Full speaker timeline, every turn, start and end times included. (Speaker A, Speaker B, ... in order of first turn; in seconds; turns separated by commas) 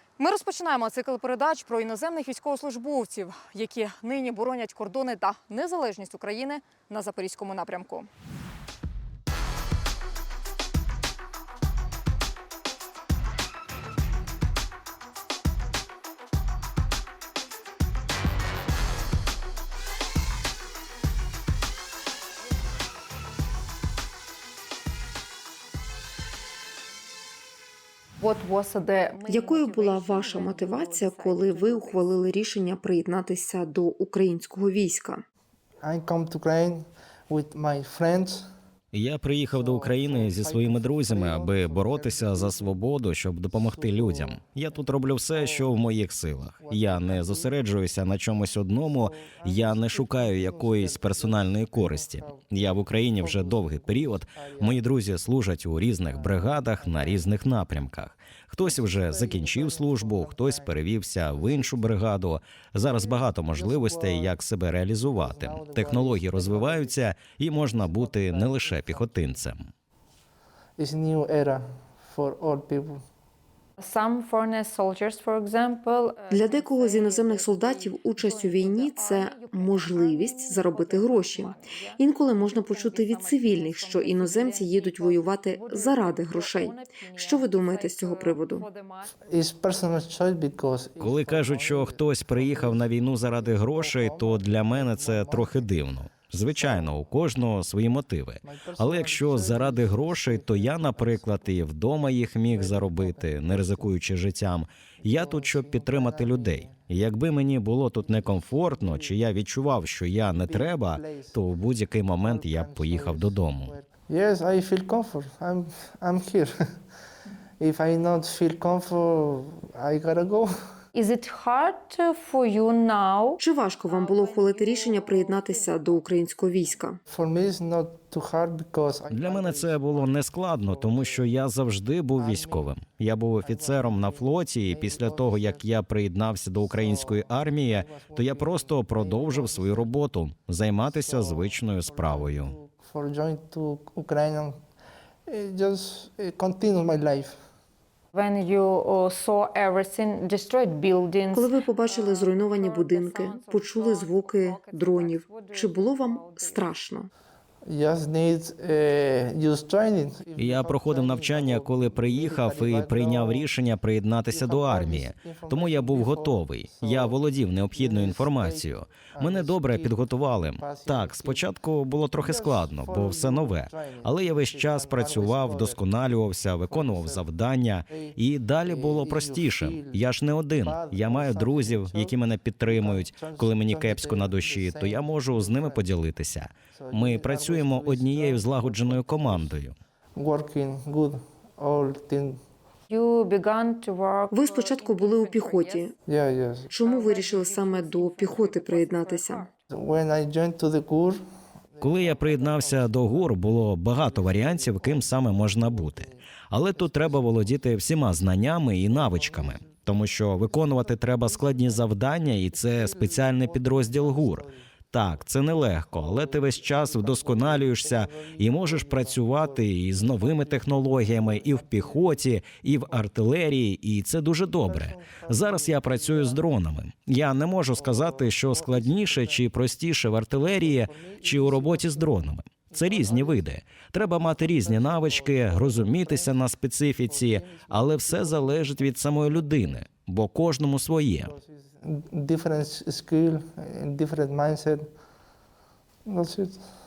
Speaker A: 0.2-8.1, Speaker A: 28.2-32.0, Speaker B: 29.3-35.2, Speaker C: 35.8-38.5, Speaker D: 38.9-69.6, Speaker C: 39.5-42.9, Speaker C: 43.5-46.0, Speaker C: 46.5-47.6, Speaker C: 48.5-54.9, Speaker C: 56.0-57.4, Speaker C: 58.6-62.0, Speaker C: 62.9-64.4, Speaker C: 65.1-69.5, Speaker C: 70.8-73.0, Speaker A: 73.8-89.2, Speaker B: 76.3-88.7, Speaker C: 89.3-97.0, Speaker D: 91.0-113.7, Speaker C: 98.4-101.6, Speaker C: 102.5-104.0, Speaker C: 105.0-106.8, Speaker C: 108.0-109.2, Speaker C: 110.3-111.4, Speaker C: 112.2-116.5, Speaker C: 117.6-120.5, Speaker A: 120.9-126.8, Speaker B: 123.4-127.0, Speaker C: 127.1-131.4, Speaker D: 129.1-142.6, Speaker C: 132.2-132.8, Speaker C: 133.4-135.7, Speaker C: 136.6-140.0, Speaker C: 140.8-144.6, Speaker C: 145.3-147.4, Speaker A: 148.1-156.7, Speaker B: 151.3-157.1, Speaker C: 157.7-163.5, Speaker D: 160.4-189.8, Speaker C: 164.3-171.5, Speaker C: 172.2-177.2, Speaker C: 177.9-185.9, Speaker C: 186.8-189.6, Speaker C: 190.2-192.4, Speaker A: 192.9-195.9, Speaker B: 194.3-195.9, Speaker C: 196.1-196.7, Speaker B: 196.7-199.5, Speaker A: 196.8-199.5, Speaker C: 199.7-201.2, Speaker C: 201.8-207.7, Speaker D: 201.8-241.3, Speaker C: 208.8-214.7, Speaker C: 215.5-223.1, Speaker C: 224.6-226.5, Speaker C: 227.7-229.5, Speaker C: 230.3-236.4, Speaker C: 237.0-239.8, Speaker C: 241.1-244.8, Speaker C: 246.1-246.6